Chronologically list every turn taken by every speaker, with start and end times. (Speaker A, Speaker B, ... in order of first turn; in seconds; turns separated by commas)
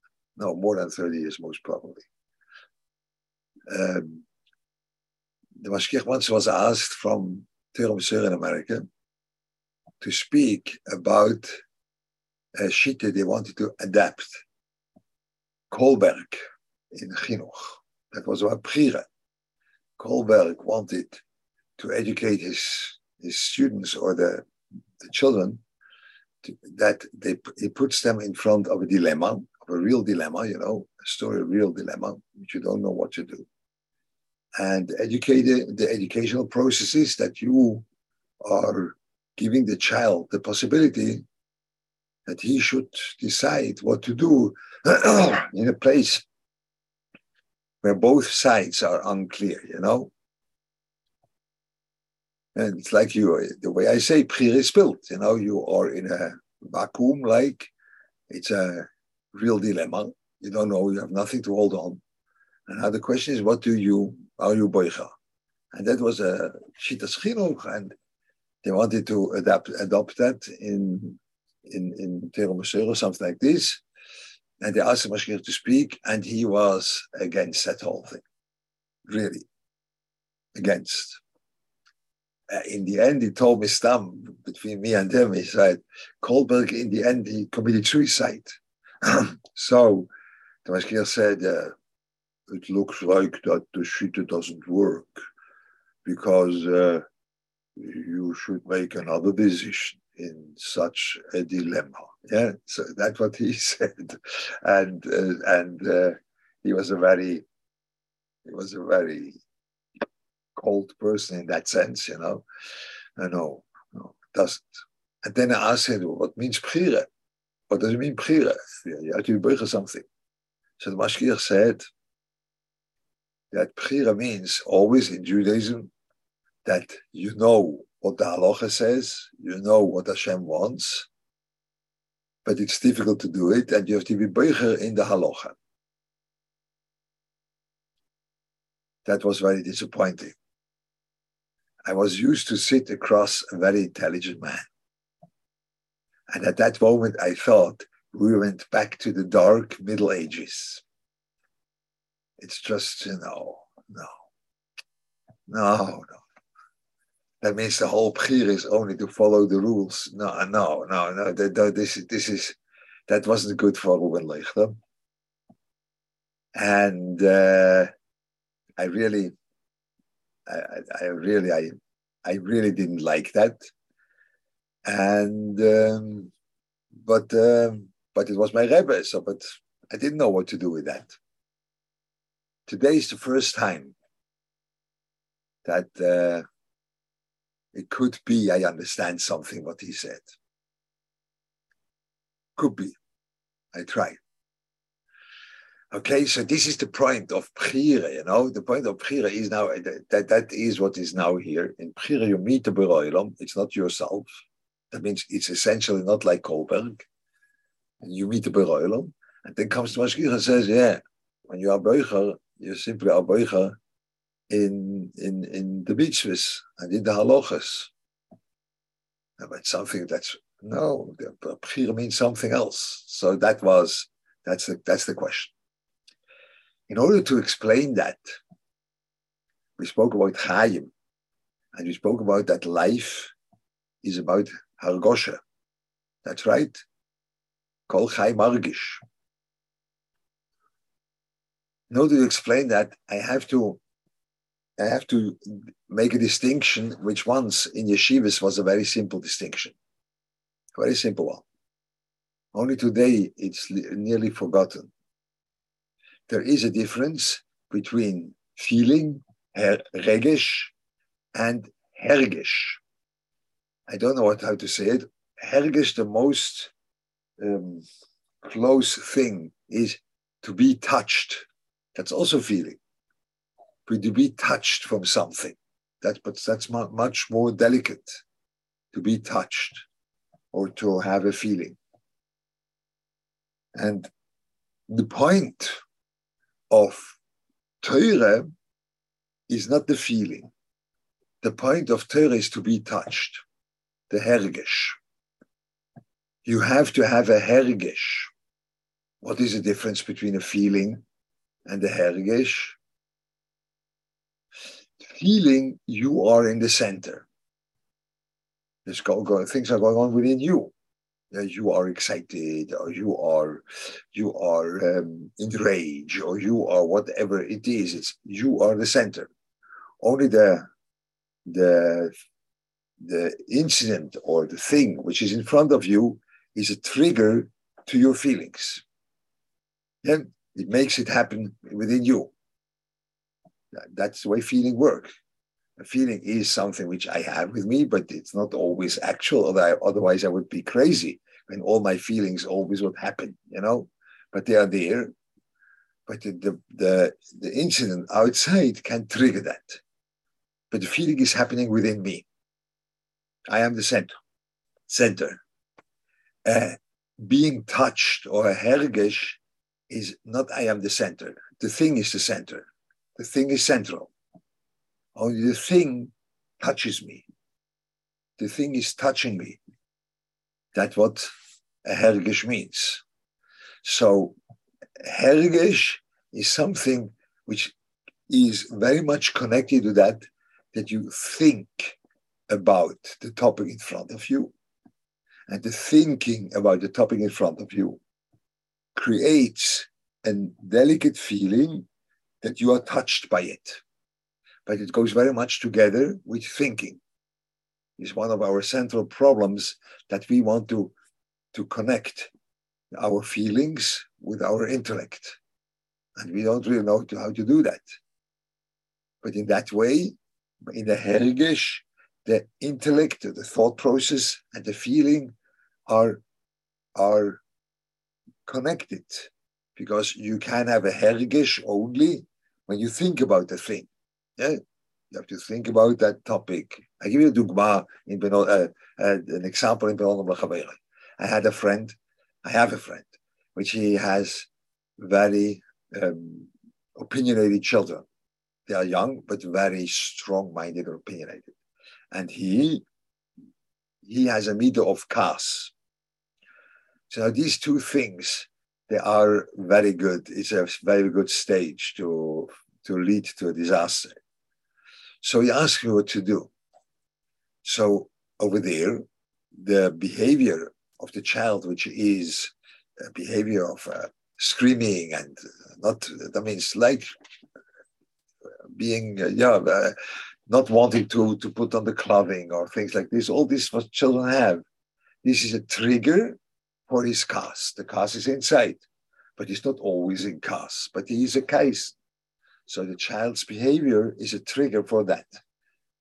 Speaker A: 0.3-2.0, Speaker A: 3.7-4.2, Speaker A: 5.6-8.8, Speaker A: 10.0-11.6, Speaker A: 12.5-14.4, Speaker A: 15.7-19.1, Speaker A: 20.0-21.2, Speaker A: 21.8-24.5, Speaker A: 25.0-25.6, Speaker A: 26.4-33.5, Speaker A: 34.6-37.8, Speaker A: 38.4-41.2, Speaker A: 42.3-46.2, Speaker A: 47.8-50.1, Speaker A: 52.5-57.7, Speaker A: 58.3-62.0, Speaker A: 62.7-65.1, Speaker A: 65.7-67.9, Speaker A: 68.6-73.8, Speaker A: 74.6-78.2, Speaker A: 79.0-79.4, Speaker A: 80.5-81.2, Speaker A: 82.5-90.1, Speaker A: 90.6-91.7, Speaker A: 92.5-95.2, Speaker A: 96.0-97.0, Speaker A: 97.8-107.5, Speaker A: 108.4-109.4, Speaker A: 110.5-112.4, Speaker A: 113.2-114.7, Speaker A: 115.2-117.1, Speaker A: 117.7-120.0, Speaker A: 120.8-121.8, Speaker A: 123.5-125.9, Speaker A: 126.6-131.1, Speaker A: 132.4-135.6, Speaker A: 139.0-140.3, Speaker A: 141.8-144.7, Speaker A: 146.3-150.8, Speaker A: 152.4-154.2, Speaker A: 155.5-156.2, Speaker A: 157.4-164.8, Speaker A: 166.5-167.9, Speaker A: 168.8-169.3, Speaker A: 170.4-173.7, Speaker A: 174.8-176.3, Speaker A: 177.0-181.1, Speaker A: 182.7-183.9, Speaker A: 185.6-186.4, Speaker A: 187.7-190.3, Speaker A: 192.6-193.0, Speaker A: 193.7-194.2, Speaker A: 195.9-204.3, Speaker A: 204.9-207.1, Speaker A: 208.0-213.8, Speaker A: 214.5-217.9, Speaker A: 219.4-225.5, Speaker A: 226.9-228.3, Speaker A: 229.8-230.9, Speaker A: 231.7-233.3, Speaker A: 234.0-235.4, Speaker A: 236.2-236.8, Speaker A: 237.9-239.0, Speaker A: 241.9-243.8, Speaker A: 244.8-249.7, Speaker A: 250.7-251.4, Speaker A: 252.5-254.9, Speaker A: 256.3-260.7, Speaker A: 261.3-262.8, Speaker A: 263.9-266.7, Speaker A: 267.4-267.8, Speaker A: 268.4-272.8, Speaker A: 273.9-278.2, Speaker A: 278.9-279.8, Speaker A: 280.5-281.8, Speaker A: 283.7-284.1, Speaker A: 284.9-285.8, Speaker A: 286.7-287.2, Speaker A: 287.8-288.5, Speaker A: 289.5-290.5, Speaker A: 291.4-293.4, Speaker A: 294.1-295.0, Speaker A: 296.4-298.3, Speaker A: 299.2-301.0, Speaker A: 301.6-302.8, Speaker A: 305.0-307.3, Speaker A: 308.8-310.7, Speaker A: 311.3-319.3, Speaker A: 320.0-320.7, Speaker A: 321.4-322.1, Speaker A: 323.0-328.8, Speaker A: 330.0-332.3, Speaker A: 333.7-335.1, Speaker A: 335.8-345.1, Speaker A: 346.1-349.8, Speaker A: 350.7-352.2, Speaker A: 353.5-354.1, Speaker A: 354.9-355.4, Speaker A: 356.4-364.1, Speaker A: 365.1-367.2, Speaker A: 368.4-369.6, Speaker A: 370.7-371.3, Speaker A: 371.8-373.0, Speaker A: 373.8-374.4, Speaker A: 375.0-377.7, Speaker A: 378.3-382.0, Speaker A: 382.5-384.5, Speaker A: 385.5-388.0, Speaker A: 388.9-391.9, Speaker A: 392.4-393.8, Speaker A: 394.6-397.0, Speaker A: 398.0-400.9, Speaker A: 401.5-402.3, Speaker A: 402.9-405.4, Speaker A: 406.2-407.8, Speaker A: 409.2-410.1, Speaker A: 410.7-415.3, Speaker A: 415.9-416.2, Speaker A: 416.9-417.4, Speaker A: 418.4-438.0, Speaker A: 438.7-441.5, Speaker A: 442.1-442.8, Speaker A: 444.0-445.7, Speaker A: 447.1-454.1, Speaker A: 455.2-456.5, Speaker A: 457.6-462.5, Speaker A: 463.0-467.0, Speaker A: 468.7-469.9, Speaker A: 470.5-474.6, Speaker A: 475.2-476.4, Speaker A: 476.9-478.8, Speaker A: 479.4-481.9, Speaker A: 482.7-485.4